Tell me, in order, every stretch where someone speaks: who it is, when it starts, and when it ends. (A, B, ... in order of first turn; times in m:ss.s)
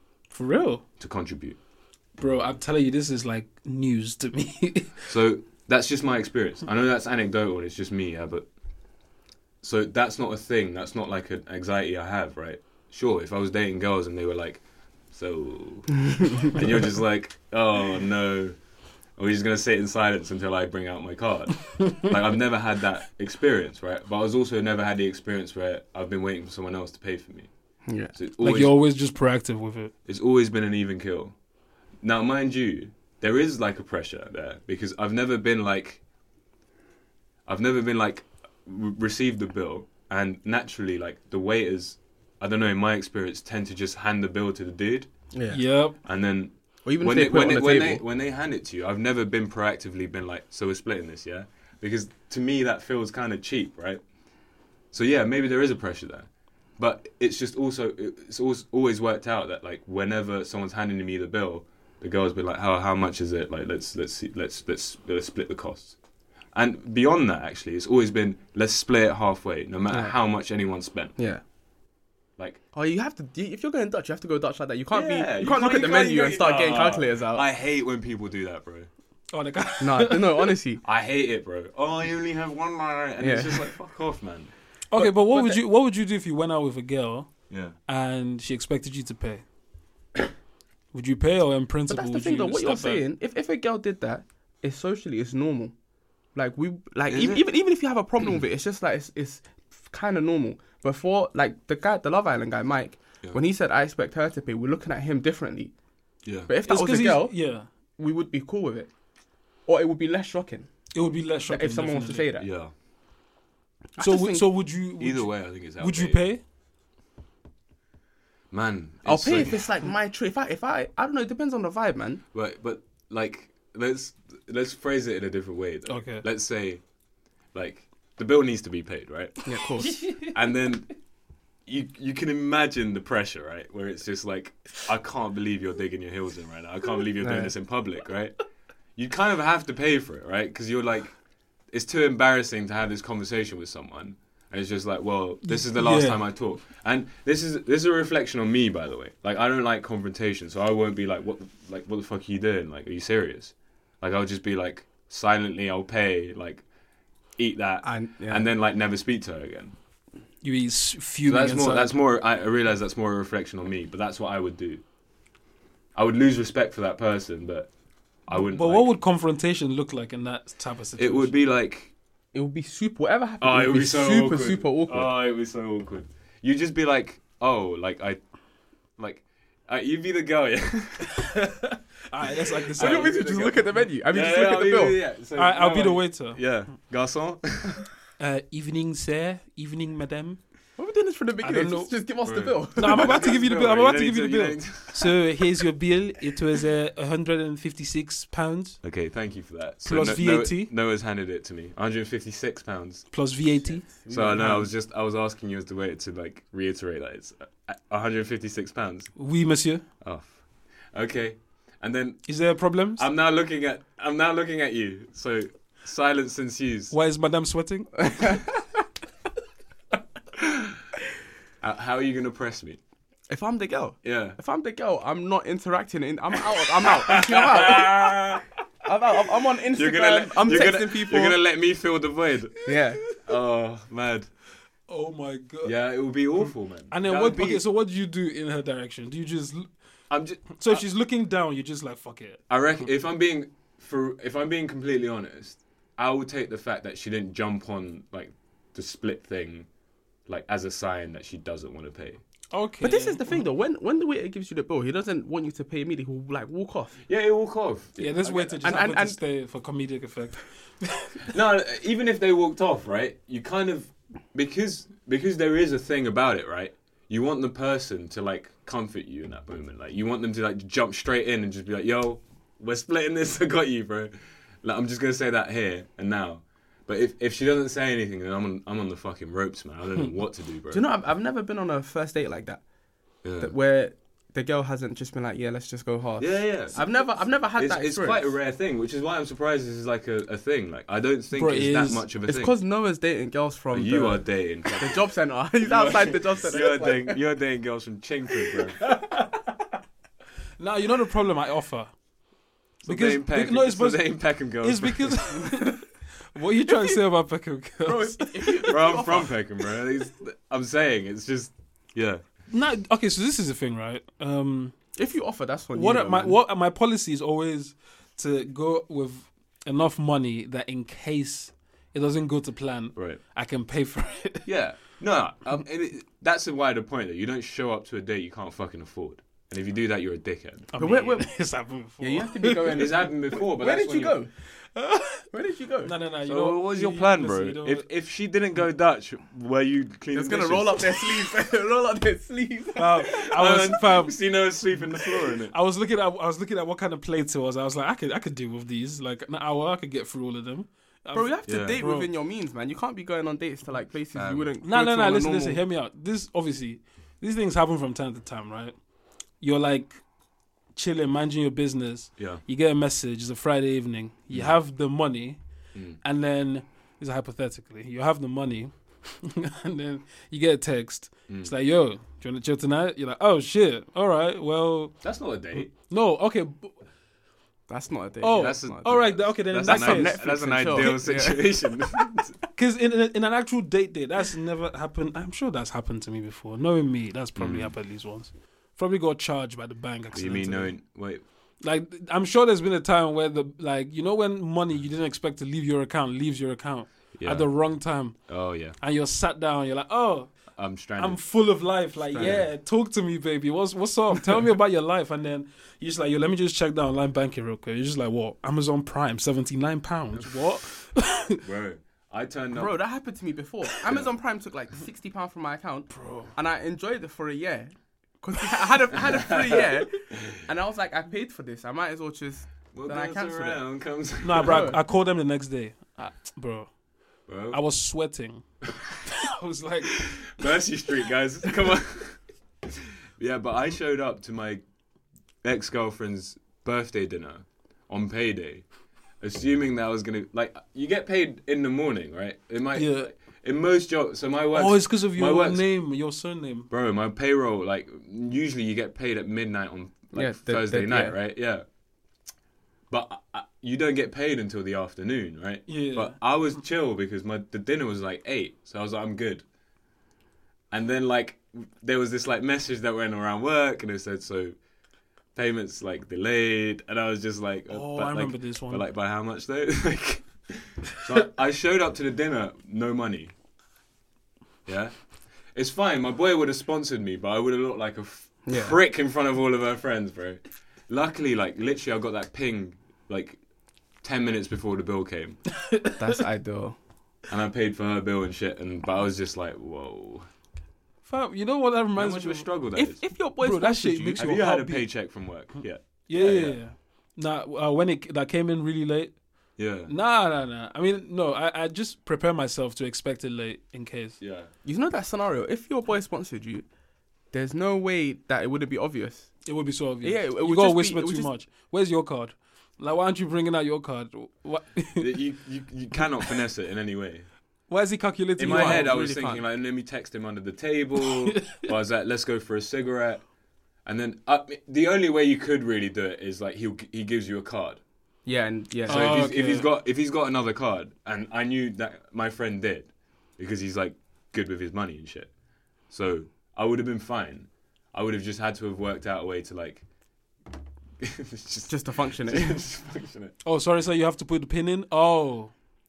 0:00.3-0:00.8 A
0:01.0-0:01.6 B
0:02.2-0:05.0 A
0:05.1-0:08.5 B
0:09.6-0:18.6 B
0:19.2-0:27.5 B
0:27.9-0:28.1 C
0:28.1-0:28.7 B
0:28.4-0:29.9 A
0:30.1-0:31.4 B
0:32.0-0:36.0 B
0:37.5-0:45.1 B
0:45.3-0:45.6 C
0:45.5-0:46.0 A
0:46.0-0:54.0 B
0:46.8-0:48.0 C
0:54.9-1:06.0 B
1:06.5-1:11.2 B
1:09.9-1:10.2 C
1:12.7-1:17.5 C
1:14.9-1:18.9 B
1:19.3-1:20.5 A
1:19.8-1:20.8 C
1:20.8-1:24.5 B
1:23.2-1:23.7 C
1:24.9-1:27.3 A
1:25.0-1:25.6 C
1:27.5-1:27.8 B
1:27.9-1:29.4 A
1:30.9-1:33.0 A
1:31.9-1:35.7 C
1:36.4-1:45.7 C
1:37.1-1:37.4 B
1:46.2-1:46.5 B
1:46.5-1:47.4 C
1:46.6-1:47.7 A
1:48.0-1:48.9 C
1:49.7-1:50.7 C
1:50.9-1:52.3 A
1:51.5-1:52.5 C
1:52.4-1:52.7 B
1:54.0-1:54.5 C
1:54.0-1:56.4 A
1:55.0-1:56.2 B
1:58.5-1:59.6 B
1:59.0-2:02.2 C
2:02.3-2:06.8 B
2:05.9-2:06.2 A
2:07.5-2:09.5 B
2:09.4-2:10.1 C
2:10.1-2:10.9 B
2:11.7-2:18.4 B
2:17.2-2:17.5 C
2:19.0-2:21.2 B
2:21.7-2:36.6 B
2:25.4-2:26.2 A
2:37.4-2:39.8 B
2:37.8-2:38.5 C
2:40.4-2:42.0 A
2:41.3-2:44.8 B
2:46.0-2:47.7 B
2:48.3-2:48.9 B
2:48.3-2:51.3 A
2:51.0-2:51.9 B
2:52.3-2:55.1 C
2:53.4-2:58.2 B
2:59.0-3:01.2 B
3:01.2-3:03.5 A
3:02.7-3:07.9 B
3:02.8-3:05.0 C
3:05.4-3:06.4 A
3:08.2-3:10.4 A
3:10.8-3:13.3 C
3:11.4-3:12.0 A
3:12.2-3:15.2 B
3:12.8-3:18.8 A
3:18.8-3:23.1 B
3:19.8-3:20.7 A
3:23.1-3:24.6 A
3:23.6-3:24.6 C
3:24.1-3:29.1 B
3:29.2-3:29.8 A
3:30.0-3:30.4 B
3:30.9-3:36.9 B
3:32.3-3:33.1 A
3:36.9-3:38.4 A
3:40.4-3:40.8 B
3:41.6-3:42.8 B
3:43.3-3:48.1 C
3:44.0-3:44.4 B
3:47.0-3:48.5 B
3:48.8-3:51.4 C
3:49.7-3:54.3 B
3:52.7-3:53.0 C
3:54.9-3:55.8 A
3:55.6-3:57.6 B
3:56.9-3:59.7 A
4:00.1-4:00.8 B
4:00.6-4:02.4 A
4:02.5-4:09.7 B
4:10.3-4:12.2 B
4:12.5-4:13.4 A
4:12.8-4:17.0 C
4:17.1-4:18.7 B
4:18.0-4:21.2 A
4:18.6-4:19.2 C
4:21.3-4:40.8 B
4:40.7-4:42.6 C
4:43.2-4:43.5 B
4:43.4-4:48.3 C
4:46.2-4:52.5 B
4:51.3-4:52.0 A
4:52.3-4:57.2 C
4:53.7-4:55.1 B
4:55.6-4:58.8 B
4:58.8-4:59.5 A
5:00.6-5:01.9 A
5:02.8-5:05.2 B
5:02.9-5:08.7 A
5:06.7-5:07.0 C
5:07.9-5:09.4 C
5:08.7-5:12.2 B
5:12.5-5:14.8 A
5:15.0-5:16.4 C
5:15.7-5:24.5 A
5:24.4-5:30.7 B
5:30.7-5:32.9 A
5:30.8-5:31.4 C
5:32.0-5:34.3 C
5:32.7-5:34.2 B
5:34.8-5:35.3 A
5:35.3-5:35.9 C
5:35.8-5:37.9 A
5:36.2-5:41.3 B
5:40.1-5:43.2 C
5:42.8-5:44.2 A
5:43.1-5:45.5 B
5:45.5-5:52.1 A
5:51.1-5:55.6 C
5:51.5-5:51.8 B
5:54.1-5:54.5 B
5:54.6-5:58.8 A
5:59.4-6:00.0 A
6:00.8-6:05.4 A
6:06.0-6:15.0 A
6:15.0-6:15.7 B
6:15.6-6:16.8 A
6:17.7-6:18.9 C
6:18.2-6:21.2 A
6:18.3-6:22.3 B
6:19.6-6:22.1 C
6:22.6-6:30.8 A
6:27.4-6:27.7 B
6:30.1-6:31.2 B
6:31.6-6:38.2 A
6:37.2-6:37.5 B
6:38.3-6:38.8 B
6:38.8-6:40.3 A
6:40.6-6:41.2 B
6:41.0-6:51.4 A
6:42.1-6:42.4 C
6:42.2-6:42.5 B
6:51.4-6:52.8 B
6:52.5-7:03.6 C
6:53.8-6:54.1 B
6:55.9-6:56.3 A
6:59.0-6:59.8 B
7:02.7-7:04.7 B
7:04.2-7:06.7 A
7:04.4-7:04.8 C
7:07.3-7:07.6 B
7:07.5-7:08.4 A
7:09.0-7:10.2 A
7:09.9-7:14.6 B
7:15.4-7:18.6 B
7:19.2-7:25.7 B
7:22.8-7:23.1 A
7:24.5-7:26.7 A
7:26.7-7:31.6 B
7:30.1-7:31.2 C
7:32.9-7:39.4 B
7:35.7-7:36.2 A
7:40.7-7:44.6 B
7:45.4-7:53.3 B
7:47.7-7:48.8 A
7:54.7-7:54.9 B
7:55.5-8:03.4 B
7:58.5-7:58.8 C
8:04.0-8:05.4 B
8:05.6-8:06.1 A
8:06.0-8:06.8 C
8:07.3-8:10.3 B
8:11.0-8:12.5 A
8:12.0-8:13.0 B
8:12.8-8:14.3 C
8:13.4-8:14.9 A
8:14.2-8:16.6 B
8:16.1-8:19.2 A
8:19.6-8:19.9 B
8:19.9-8:24.2 A
8:24.2-8:24.5 B
8:24.6-8:26.7 C
8:27.3-8:29.4 C
8:29.5-8:35.2 A
8:30.0-8:31.3 C
8:35.0-8:37.3 B
8:37.7-8:38.9 A
8:38.4-8:43.2 B
8:38.4-8:39.4 C
8:43.8-8:47.8 B
8:48.3-8:49.3 C
8:48.9-8:55.3 B
8:48.9-8:49.7 A
8:55.9-8:59.8 B
9:01.0-9:03.4 B
9:01.7-9:02.6 C
9:03.4-9:05.5 A